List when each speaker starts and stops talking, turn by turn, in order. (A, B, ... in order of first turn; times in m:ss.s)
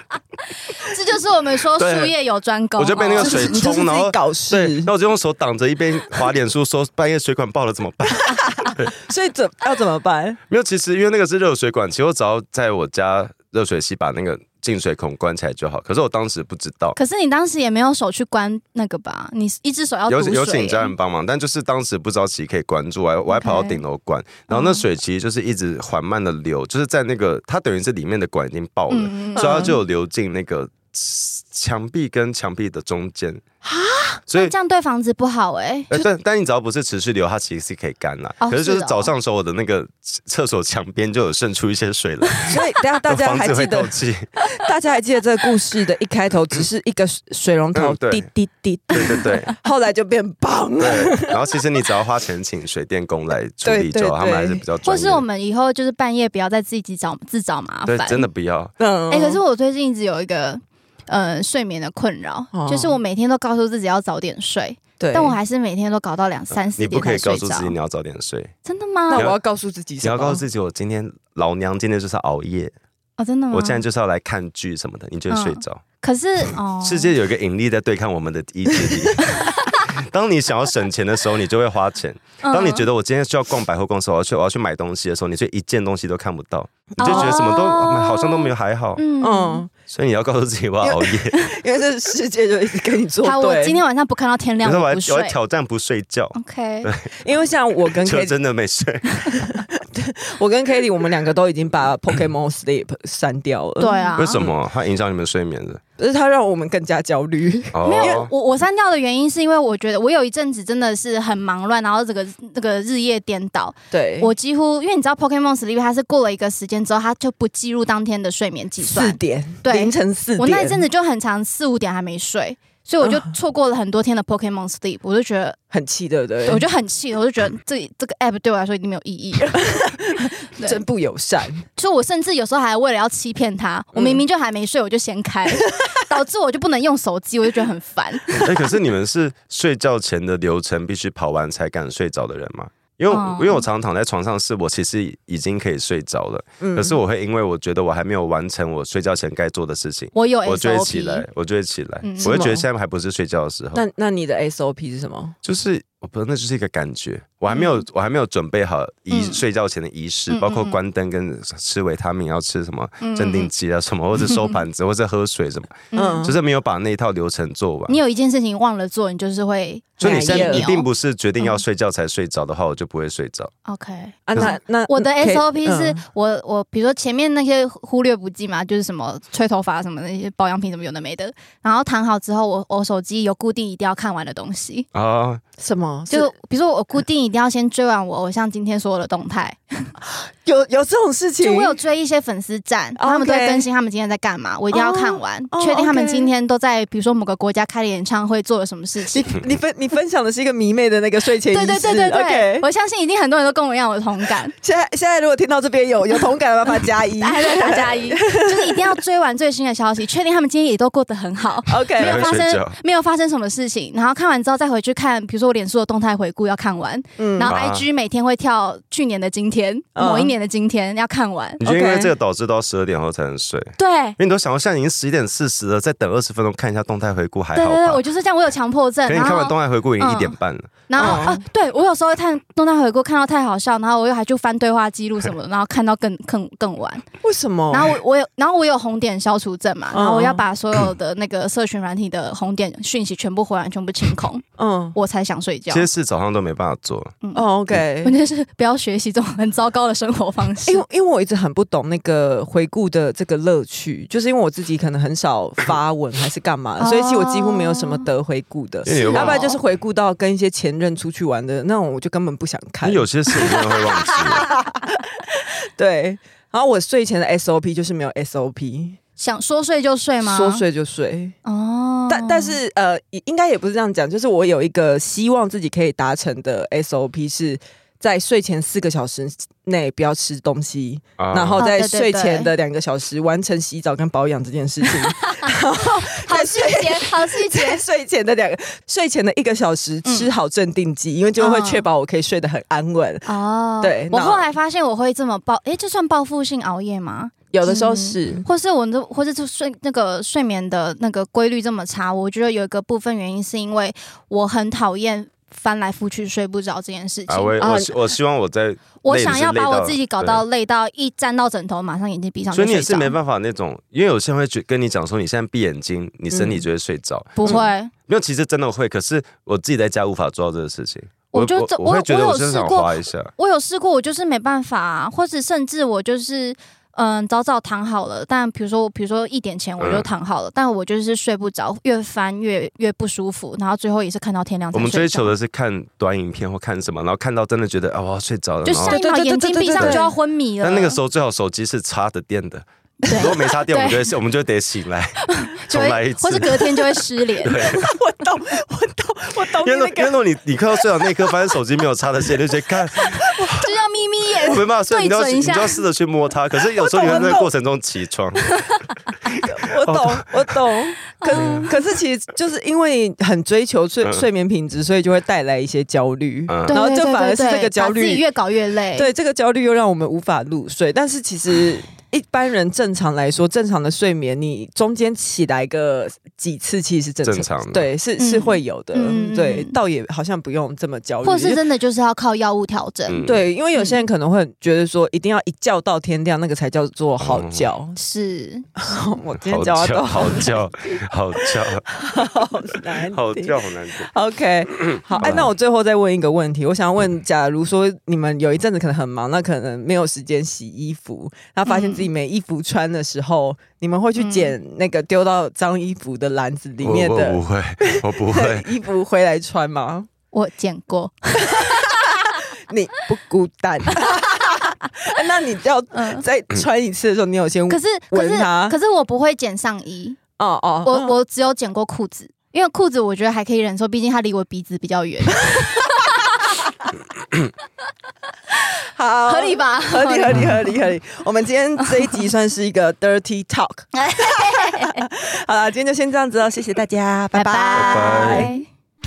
0:00.7-0:03.6 A
0:01.8-0:02.1 B
0:02.8-0:08.9 B
0:03.2-0:04.9 C
0:08.4-0:10.4 C
0:10.5-0:17.0 B
0:16.9-0:20.9 A
0:20.1-0:33.4 B
0:23.3-0:23.8 A
0:24.5-0:24.8 A
0:28.9-0:29.7 A
0:29.3-0:29.7 C
0:33.6-0:34.2 C
0:34.3-0:34.5 B
0:34.3-0:35.9 A
0:35.9-0:44.4 B
0:38.4-0:39.1 A
0:42.5-0:43.9 C
0:44.5-0:51.4 C
0:47.7-0:48.3 B
0:48.9-0:49.5 B
0:50.8-0:55.2 B
0:53.6-0:54.6 C
0:54.8-0:58.2 A
0:57.8-0:58.7 B
0:58.8-0:59.4 C
0:59.1-1:07.7 A
1:02.5-1:03.0 C
1:05.0-1:05.4 C
1:06.8-1:08.5 B
1:08.6-1:09.3 A
1:09.1-1:10.4 C
1:10.0-1:12.7 B
1:13.2-1:13.8 A
1:13.5-1:15.8 B
1:15.3-1:17.1 A
1:16.8-1:29.0 B
1:19.3-1:19.8 A
1:22.4-1:22.8 A
1:27.0-1:29.6 A
1:27.0-1:27.4 C
1:29.2-1:29.7 C
1:29.9-1:31.4 B
1:30.8-1:33.8 C
1:33.2-1:35.4 A
1:34.6-1:37.1 B
1:36.3-1:36.9 A
1:37.2-1:38.4 C
1:37.9-1:39.4 B
1:39.4-1:44.4 C
1:43.8-1:44.4 A
1:44.2-1:45.8 B
1:46.0-1:48.2 C
1:47.7-1:48.3 B
1:47.8-2:05.6 A
1:53.9-1:54.3 C
1:58.8-2:00.8 C
2:03.0-2:03.3 C
2:05.7-2:06.6 C
2:06.4-2:10.8 A
2:09.5-2:11.7 C
2:11.8-2:18.6 A
2:13.9-2:14.2 C
2:18.4-2:33.8 B
2:23.1-2:23.6 A
2:26.6-2:27.0 C
2:30.1-2:31.2 A
2:32.0-2:32.5 A
2:32.2-2:32.6 C
2:33.7-2:35.4 C
2:35.4-2:48.0 B
2:37.5-2:37.8 A
2:39.1-2:39.4 A
2:40.3-2:40.8 A
2:43.0-2:43.5 A
2:45.9-2:46.2 A
2:45.9-2:46.4 C
2:47.9-2:50.9 A
2:50.0-2:50.7 C
2:50.0-2:53.5 B
2:53.6-3:04.9 A
2:54.3-2:56.0 C
3:04.9-3:05.4 B
3:05.6-3:06.3 C
3:06.1-3:09.9 A
3:10.1-3:11.8 C
3:11.4-3:19.4 A
3:13.0-3:13.7 C
3:14.7-3:16.3 C
3:19.1-3:22.6 C
3:21.5-3:24.5 A
3:24.6-3:29.0 C
3:27.2-3:41.6 A
3:31.7-3:32.3 C
3:32.0-3:32.8 B
3:37.2-3:37.5 C
3:37.5-3:37.8 B
3:40.0-3:40.3 C
3:41.6-3:48.0 B
3:41.6-3:42.1 C
3:43.8-3:44.2 A
3:47.5-3:50.3 A
3:49.0-3:51.2 B
3:50.9-3:57.0 A
3:51.0-3:51.4 C
3:57.2-3:58.0 C
3:57.7-4:04.4 A
3:59.9-4:00.4 C
4:04.6-4:05.0 C
4:04.9-4:05.9 A
4:05.7-4:07.2 B
4:07.3-4:08.1 C
4:08.0-4:10.8 A
4:10.6-4:29.0 C
4:16.8-4:18.1 A
4:18.8-4:19.4 B
4:18.9-4:19.6 A
4:22.8-4:24.5 B
4:29.2-4:30.6 A
4:30.2-4:31.4 C
4:31.4-4:32.6 A
4:32.1-4:53.3 C
4:41.2-4:41.6 B
4:41.6-4:42.5 A
4:45.1-4:47.8 A
4:50.0-4:50.3 A
4:51.4-4:51.8 A
4:53.2-5:07.6 A
4:53.8-4:54.4 C
4:57.5-4:58.4 C
5:07.3-5:10.4 B
5:07.6-5:07.9 C
5:09.0-5:13.1 A
5:12.5-5:23.3 B
5:16.3-5:16.6 C
5:17.4-5:17.9 A
5:21.3-5:35.3 A
5:29.8-5:30.1 B
5:34.7-5:39.0 B
5:38.6-5:41.0 A
5:38.8-5:40.1 C
5:39.7-5:40.0 B
5:40.6-5:46.8 B
5:43.0-5:44.1 A
5:45.3-5:47.8 A
5:47.4-5:47.9 B
5:47.7-5:50.2 C
5:49.6-5:53.6 B
5:53.0-5:53.5 C
5:53.5-5:55.8 A
5:54.4-5:58.6 B
5:56.8-5:57.5 C
5:59.3-6:00.5 B
5:59.4-6:08.2 C
6:01.2-6:01.7 A
6:01.3-6:01.7 B
6:06.5-6:06.8 B
6:06.7-6:09.1 A
6:09.0-6:21.6 C
6:17.2-6:17.9 B
6:18.2-6:19.8 A
6:21.2-6:23.2 A
6:23.1-6:23.4 B
6:23.2-6:28.0 C
6:27.2-6:27.7 B
6:28.0-6:28.7 A
6:28.8-6:30.7 C
6:29.4-6:31.9 B
6:31.4-6:50.1 C
6:33.1-6:34.1 B
6:35.2-6:35.5 B
6:41.7-6:42.1 A
6:44.2-6:44.5 A
6:46.8-6:48.7 B
6:50.3-6:52.4 A
6:51.4-6:58.8 C
6:55.9-6:56.2 A
6:57.7-7:00.2 A
7:00.4-7:01.1 C
7:00.8-7:06.3 A
7:08.9-7:18.5 C
7:09.3-7:10.8 A
7:13.9-7:15.0 A
7:17.3-7:18.6 A
7:17.8-7:18.5 B